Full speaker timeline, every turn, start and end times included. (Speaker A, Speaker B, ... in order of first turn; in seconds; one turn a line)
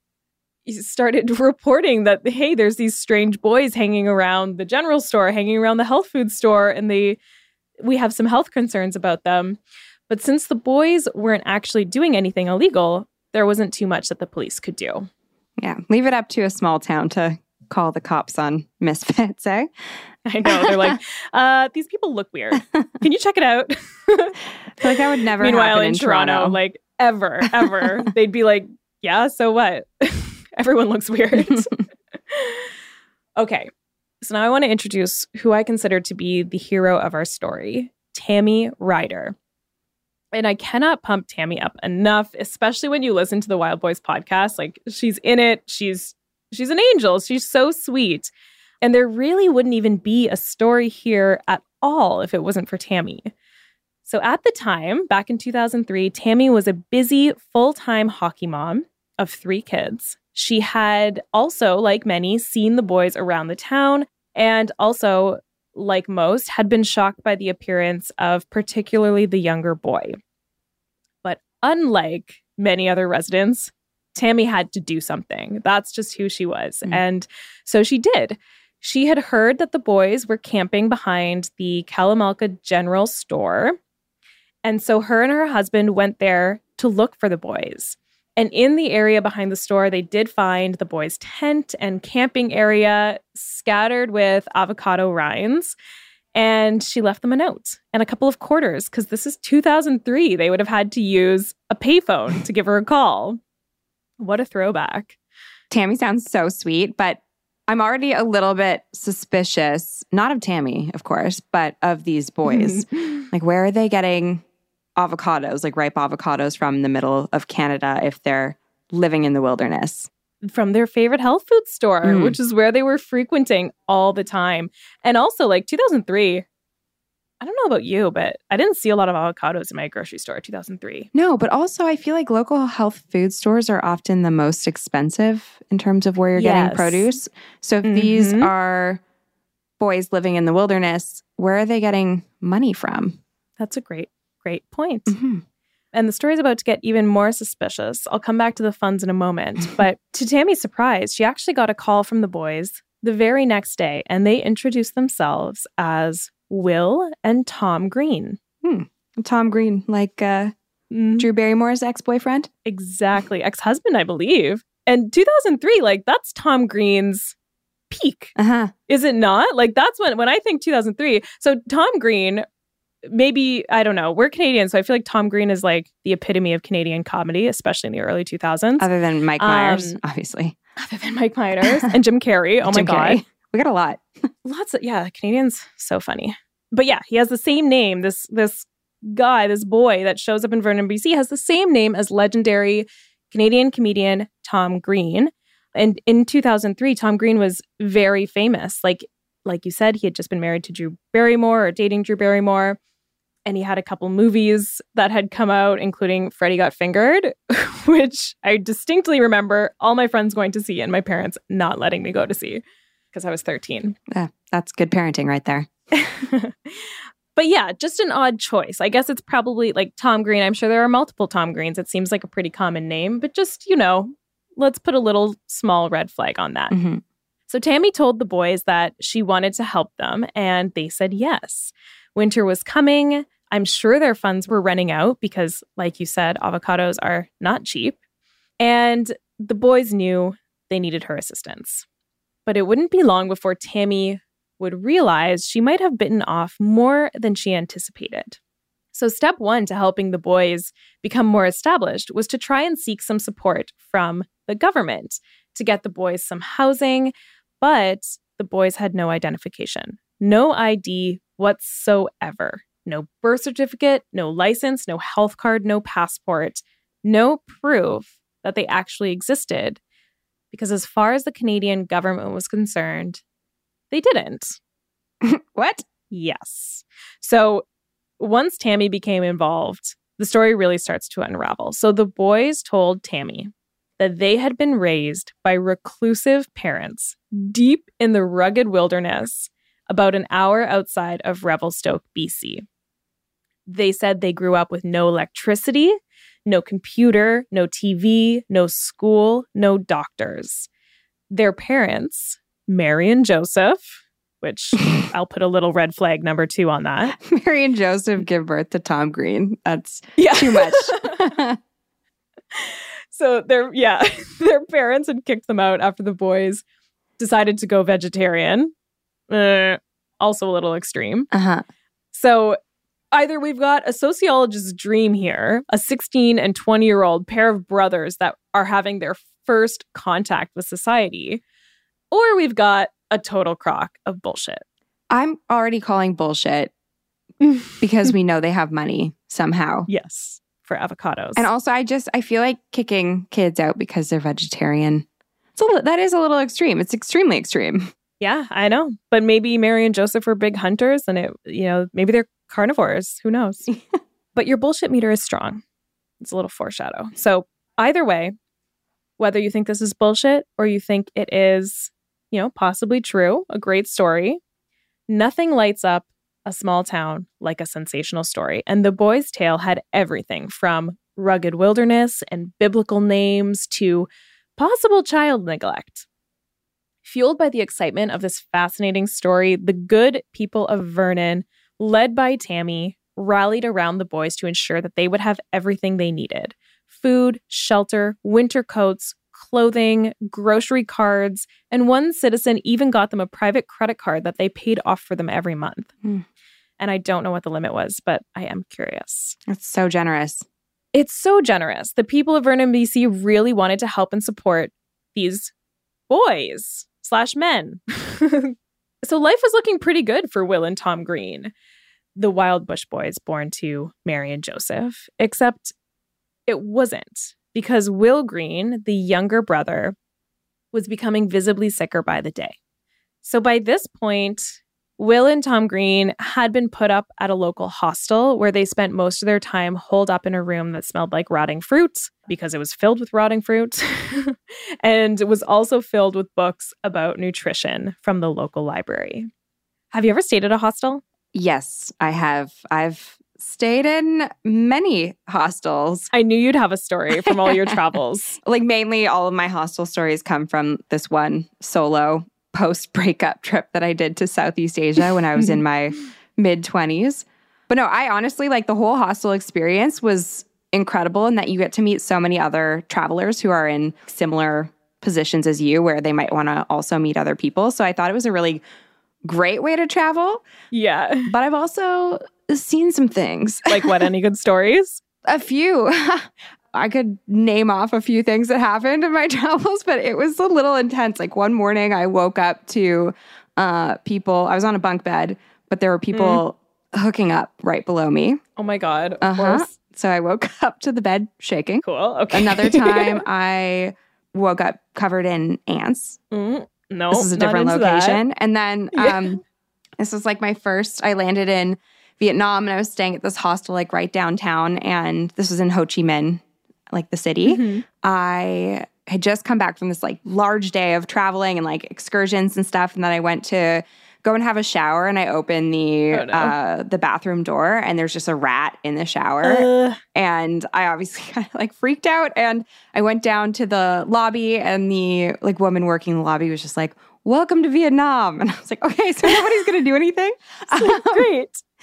Speaker A: 0.7-7.2
Speaker A: 7.8-15.1
Speaker B: 15.6-19.7
Speaker A: 20.2-31.7
Speaker B: 20.4-20.9
Speaker B: 24.8-26.6
Speaker B: 27.5-28.1
Speaker A: 32.3-32.7
Speaker A: 33.4-33.7
Speaker A: 34.2-39.3
Speaker A: 40.3-48.3
Speaker A: 48.8-53.3
Speaker A: 54.0-70.2
Speaker A: 71.2-83.8
Speaker A: 84.6-95.7
Speaker A: 96.3-103.4
Speaker A: 104.2-105.2
Speaker B: 105.7-114.4
Speaker A: 112.5-113.2
Speaker B: 115.0-120.1
Speaker A: 120.4-126.4
Speaker B: 122.0-122.3
Speaker A: 127.4-131.1
Speaker B: 131.1-139.0
Speaker A: 136.3-137.1
Speaker A: 137.8-138.5
Speaker B: 139.8-143.2
Speaker A: 143.6-145.1
Speaker B: 145.1-145.4
Speaker A: 145.9-158.4
Speaker B: 158.6-160.5
Speaker A: 160.9-161.3
Speaker B: 161.2-162.5
Speaker A: 162.6-167.3
Speaker A: 167.9-168.3
Speaker B: 168.4-168.7
Speaker A: 168.9-172.4
Speaker A: 173.0-178.9
Speaker B: 178.8-180.6
Speaker A: 179.4-180.0
Speaker A: 180.8-183.2
Speaker B: 182.6-184.0
Speaker A: 184.4-202.8
Speaker A: 203.4-212.6
Speaker A: 213.1-214.0
Speaker B: 214.1-215.7
Speaker A: 215.9-226.7
Speaker B: 226.7-227.0
Speaker A: 227.5-238.0
Speaker A: 238.6-241.8
Speaker A: 242.4-248.4
Speaker A: 248.9-269.8
Speaker A: 270.5-273.2
Speaker A: 273.9-274.6
Speaker B: 275.2-275.8
Speaker A: 276.1-277.6
Speaker A: 278.2-292.6
Speaker A: 293.6-300.7
Speaker A: 301.3-307.1
Speaker B: 307.1-311.6
Speaker A: 310.2-311.1
Speaker A: 312.5-316.6
Speaker A: 317.2-318.7
Speaker A: 319.3-321.3
Speaker B: 321.3-321.6
Speaker A: 322.1-322.6
Speaker A: 323.1-331.4
Speaker A: 332.1-334.6
Speaker B: 335.1-336.7
Speaker A: 337.4-337.7
Speaker B: 337.8-339.9
Speaker A: 339.9-341.5
Speaker B: 341.4-347.9
Speaker A: 348.2-353.6
Speaker A: 354.3-355.6
Speaker A: 356.2-358.3
Speaker A: 359.2-364.4
Speaker A: 365.1-376.1
Speaker A: 377.0-395.9
Speaker A: 396.8-399.4
Speaker B: 399.5-400.4
Speaker A: 400.9-405.5
Speaker A: 406.1-411.5
Speaker A: 412.1-415.7
Speaker A: 416.5-419.9
Speaker A: 420.7-422.6
Speaker A: 423.2-439.3
Speaker A: 439.9-441.0
Speaker B: 441.3-446.1
Speaker A: 446.1-448.4
Speaker B: 447.2-447.8
Speaker B: 448.4-468.6
Speaker A: 455.4-455.6
Speaker B: 469.2-470.4
Speaker A: 470.7-471.3
Speaker B: 471.3-474.1
Speaker A: 473.7-475.0
Speaker B: 475.2-488.4
Speaker A: 486.1-486.4
Speaker A: 488.6-489.7
Speaker B: 489.2-496.2
Speaker A: 491.8-493.2
Speaker A: 496.3-498.2
Speaker B: 497.1-499.4
Speaker A: 498.9-499.2
Speaker B: 500.0-531.3
Speaker A: 507.4-507.8
Speaker A: 516.1-516.5
Speaker A: 519.4-520.0
Speaker A: 530.7-531.6